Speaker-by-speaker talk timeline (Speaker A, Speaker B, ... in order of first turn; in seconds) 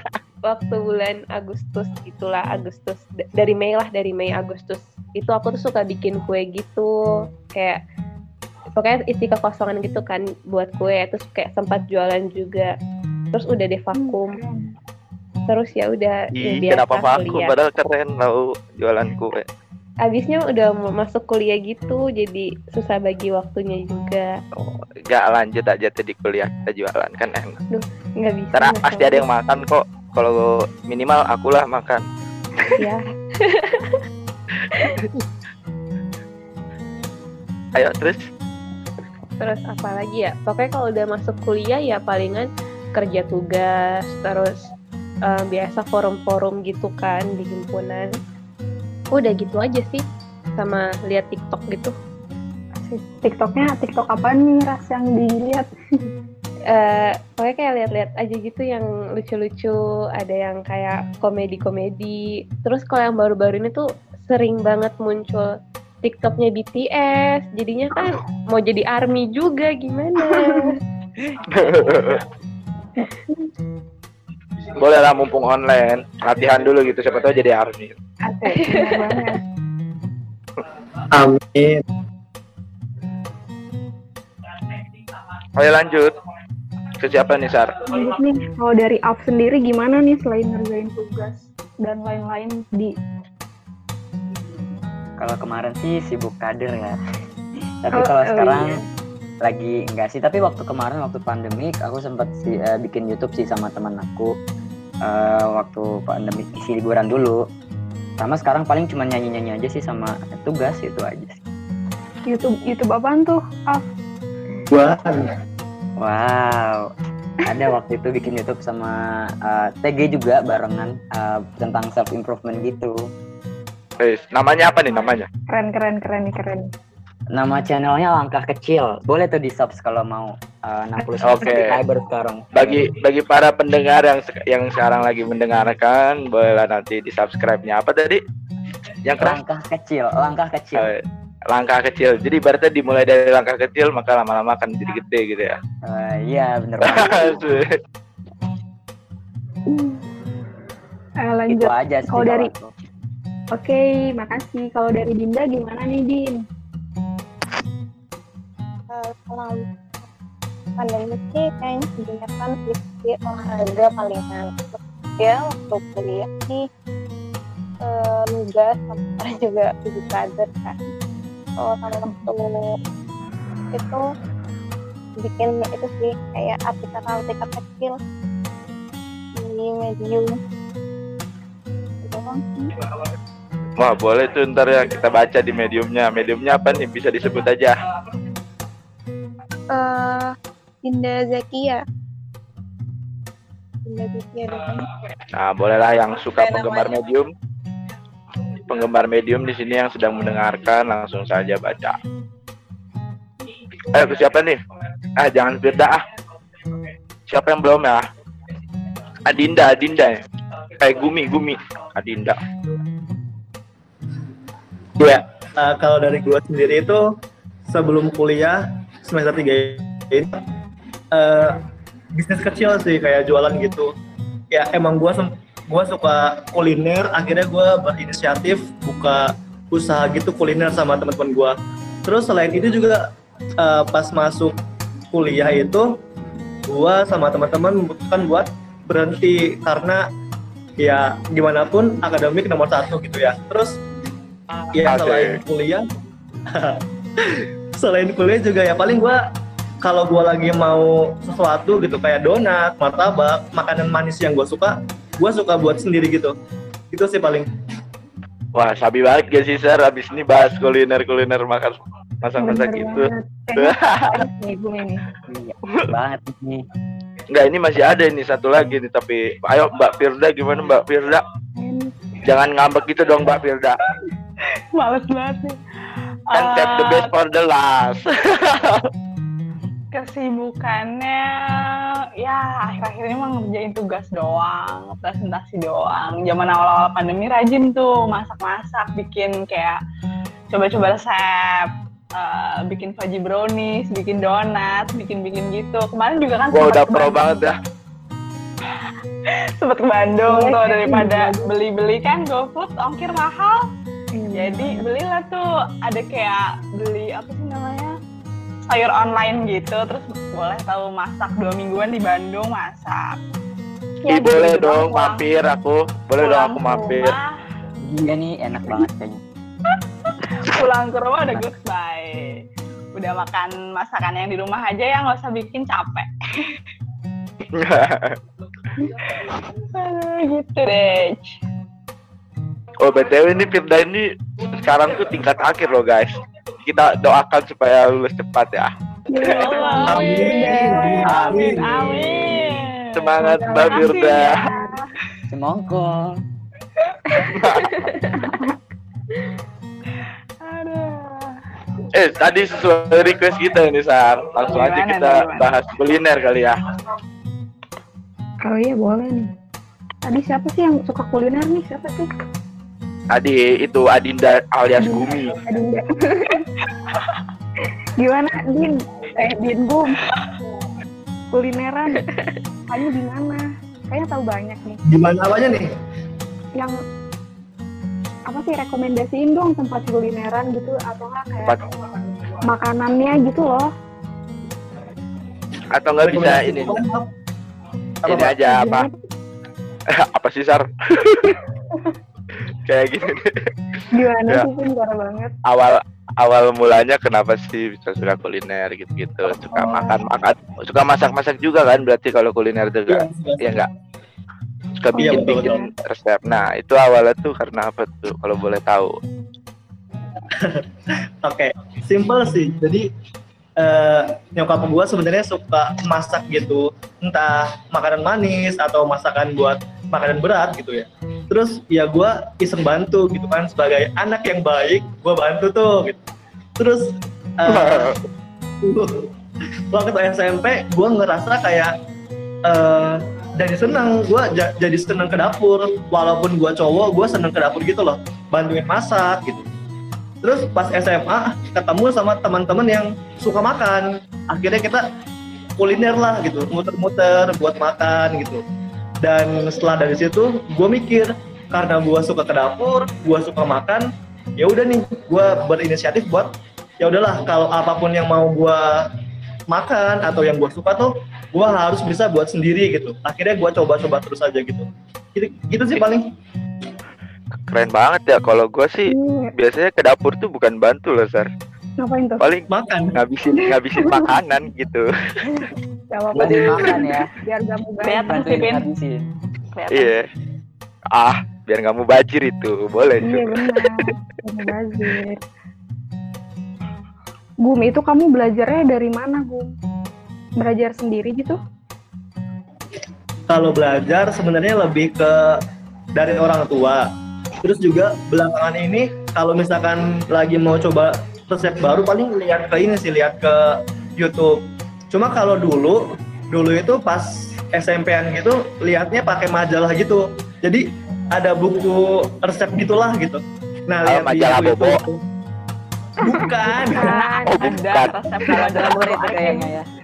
Speaker A: 0.5-6.9, 7.5-7.8, 8.8-12.7, 13.3-14.4, 15.5-17.5, 20.1-24.3, 27.7-29.2, 32.8-34.0, 34.7-35.0, 39.4-44.7, 45.3-48.1, 49.1-50.0, 50.6-51.9, 56.7-65.5, 66.0-70.8, 78.5-79.2, 347.2-348.1, 372.1-372.3, 516.7-517.4
Speaker B: 13.9-14.7, 52.8-55.7, 70.3-70.7, 73.0-73.4, 78.2-79.4, 87.9-92.9, 97.9-98.8, 112.3-113.8, 125.5-126.7, 149.7-150.0, 151.2-152.5, 153.5-156.4, 262.4-265.0, 271.6-271.9, 300.3-301.5, 304.1-304.9, 339.1-341.6, 343.2-344.8, 348.2-348.6, 358.4-359.3, 360.1-362.1, 364.8-366.4, 368.0-370.0, 371.3-372.1, 372.7-374.8, 378.3-381.6, 382.4-383.7, 388.4-388.9, 391.3-391.9, 393.9-395.3, 399.4-400.0, 404.9-405.7, 468.9-469.3, 471.8-472.2, 475.3-478.5, 483.0-485.2, 487.4-489.5, 490.4-491.4, 516.1-516.7
Speaker C: 16.4-19.4, 24.6-27.6, 28.5-32.0, 34.7-35.0, 37.8-38.2, 71.4-72.2, 74.7-77.9, 85.6-86.1, 87.0-87.8, 124.0-125.3, 131.2-131.8, 132.5-138.2, 139.0-139.4, 140.8-145.6, 146.8-147.7, 183.8-187.7, 195.3-197.3, 198.7-201.9, 203.9-204.6, 205.2-206.0, 207.3-208.0, 209.2-210.2, 210.8-212.4, 244.8-245.4, 258.5-264.2, 267.3-271.2, 272.2-273.8, 276.3-278.8, 296.5-297.6, 314.1-317.1, 327.5-328.2, 332.8-338.7, 341.1-341.5, 342.9-344.3, 347.2-347.7, 351.9-356.6, 363.1-365.4, 385.7-386.8, 388.1-388.9, 389.9-391.3, 392.6-393.5, 395.5-403.7, 404.8-408.9, 427.5-428.0, 467.5-471.3, 472.2-474.9, 479.7-480.0, 481.0-483.7, 513.9-514.8, 517.2-518.0
Speaker D: 81.1-81.8, 114.7-115.3, 215.0-217.1, 217.7-220.4, 221.1-221.6, 222.2-223.9, 224.5-233.1, 233.6-234.6, 235.1-235.9, 236.7-240.0, 240.8-243.8, 244.7-245.8, 246.5-249.2, 249.8-256.3, 256.9-257.5, 339.8-342.5, 374.9-375.7, 386.0-387.1, 388.0-388.4, 402.9-403.6, 405.0-405.6, 410.4-410.6, 411.2-412.9, 413.6-426.0, 426.6-427.9, 428.6-429.1, 429.7-431.7, 432.5-439.4, 440.2-444.8, 445.6-448.4, 449.0-458.9, 459.5-466.1, 472.5-472.9, 493.3-495.4, 495.9-496.9, 497.4-515.0, 516.0-516.9
Speaker E: 95.2-97.0, 97.8-98.8, 99.4-104.3, 105.0-107.4, 108.2-111.4, 116.0-116.9, 117.5-123.1, 127.3-132.9, 139.2-140.9, 145.8-147.4, 151.5-152.8, 265.3-266.6, 317.8-319.2, 345.3-346.2, 476.1-477.1, 478.1-479.0, 518.2-519.7
Speaker F: 158.9-159.7, 160.8-166.6, 167.8-170.9, 171.6-172.6, 173.7-174.0, 175.2-177.9, 179.3-180.3, 182.0-182.7, 189.7-190.3, 190.8-191.8, 193.8-194.8, 196.3-197.0
Speaker G: 274.7-275.6, 276.3-277.1, 279.9-281.6, 282.2-289.8, 290.5-297.5, 299.3-303.6, 304.3-307.9, 308.7-313.2, 314.1-315.2, 316.2-317.4, 319.7-322.4, 322.9-326.6, 328.9-331.4, 339.2-342.9, 343.7-344.6, 350.4-351.4, 354.4-355.4, 477.8-478.6, 479.5-480.0, 516.7-519.5